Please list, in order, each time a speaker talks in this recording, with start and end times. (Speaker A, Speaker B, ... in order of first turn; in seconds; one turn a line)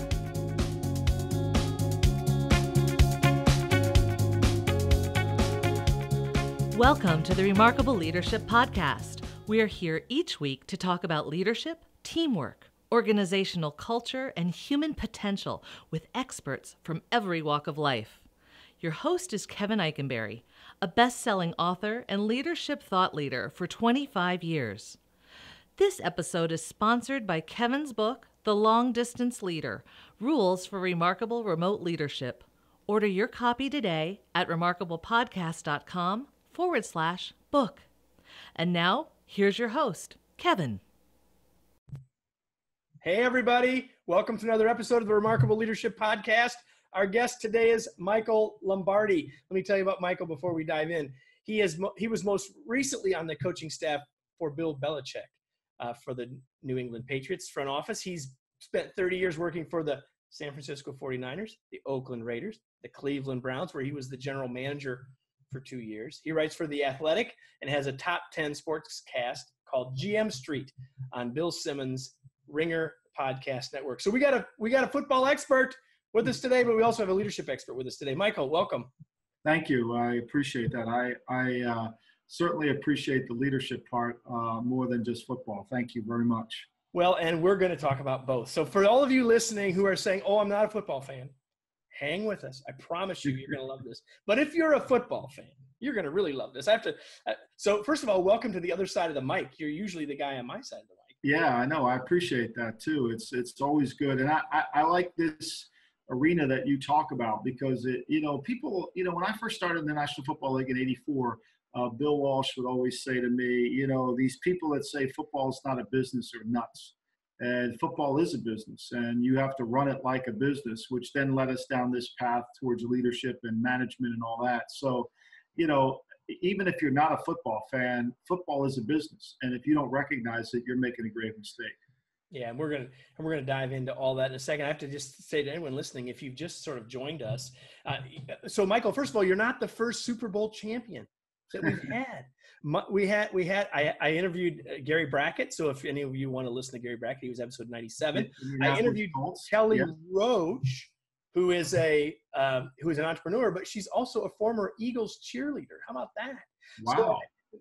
Speaker A: 6.7-18.2
Speaker A: 18.8-25.0
Speaker A: 25.8-37.9
Speaker A: 38.5-40.8
Speaker B: 43.0-78.9
Speaker C: 79.4-86.7
Speaker B: 86.9-91.3
Speaker B: 91.9-101.2
Speaker C: 93.3-93.5
Speaker C: 101.2-131.8
Speaker B: 132.3-157.3
Speaker C: 148.1-149.9
Speaker C: 156.8-157.3